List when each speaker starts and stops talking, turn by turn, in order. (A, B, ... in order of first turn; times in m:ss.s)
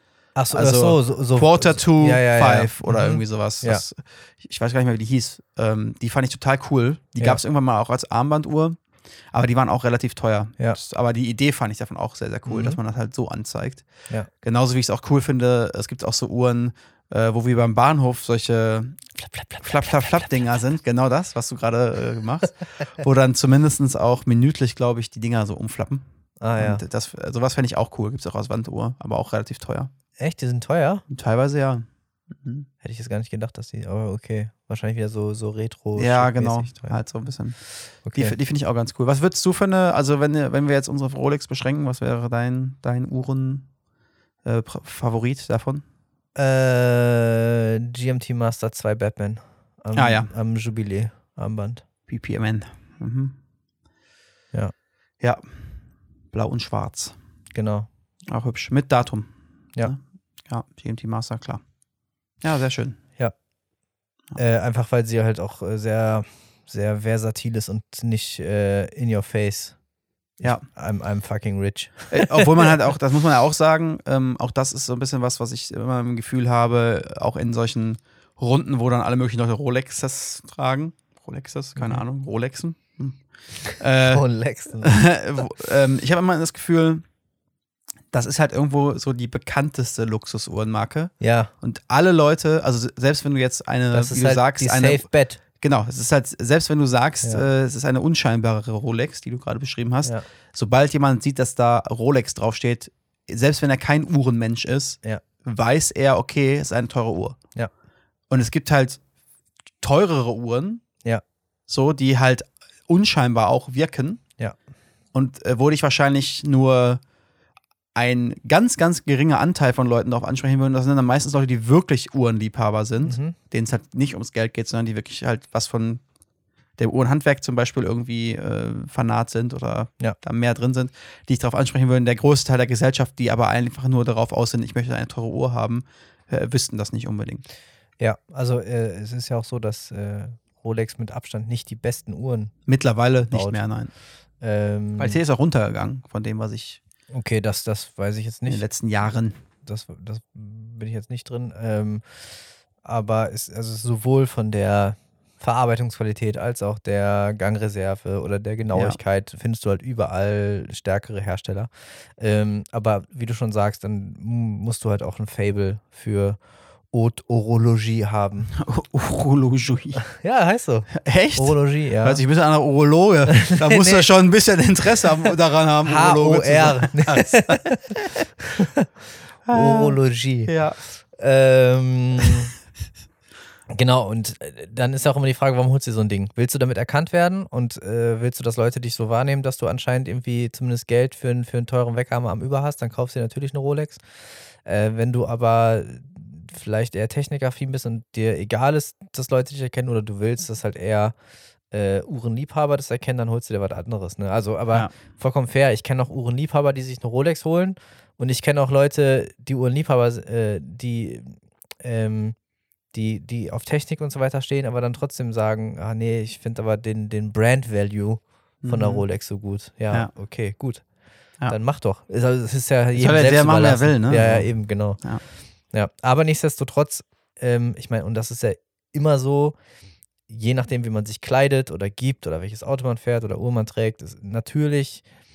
0:00.4-0:03.8 A
0:00.5-0:08.8 B
0:09.3-0:13.8 B
0:12.5-0:12.8 A
0:14.4-0:26.0 B
0:19.3-0:20.3 A
0:26.4-0:26.8 A
0:26.6-0:29.9 B
0:30.2-0:31.0 A
0:31.1-0:32.7 B
0:32.8-0:37.0 A
0:36.0-0:37.6 B
0:38.0-0:38.4 A
0:38.1-0:43.7 B
0:44.4-0:45.8 B
0:46.4-0:51.8 A
0:50.0-0:50.3 B
0:52.1-0:53.4 B
0:56.3-0:57.2 B
0:57.5-0:57.9 A
0:58.3-0:59.3 B
0:59.8-1:01.6 B
1:02.4-1:03.0 B
1:04.4-1:09.8 A
1:10.4-1:12.8 A
1:12.1-1:23.2 B
1:21.8-1:22.0 A
1:23.7-1:25.0 A
1:23.8-1:24.2 B
1:24.8-1:27.0 B
1:28.1-1:35.0 B
1:31.2-1:31.5 A
1:33.9-1:35.4 A
1:35.6-1:47.4 B
1:48.3-1:49.0 B
1:49.8-1:50.8 B
1:51.7-1:54.2 B
1:55.1-1:57.0 B
1:58.0-2:06.0 B
2:03.0-2:03.4 A
2:06.8-2:17.4 B
2:18.0-2:22.5 A
2:22.7-2:23.9 B
2:23.3-2:23.6 A
2:24.4-2:25.2 A
2:25.0-2:26.8 B
2:27.1-2:28.6 A
2:28.5-2:29.4 B
2:29.6-2:32.0 A
2:32.8-2:46.4 A
2:46.9-2:48.5 A
2:48.6-2:50.0 B
2:50.0-2:52.2 A
2:50.9-2:57.6 B
2:53.3-2:54.1 A
2:55.8-2:58.9 A
2:59.5-3:00.8 B
2:59.5-3:00.5 A
3:01.2-3:02.5 A
3:03.7-3:14.0 A
3:14.6-3:21.1 A
3:21.7-3:32.4 A
3:32.9-3:40.8 A
3:38.6-3:39.0 B
3:41.5-3:45.0 A
3:43.0-3:44.5 B
3:45.7-3:49.6 A
3:50.3-3:55.0 A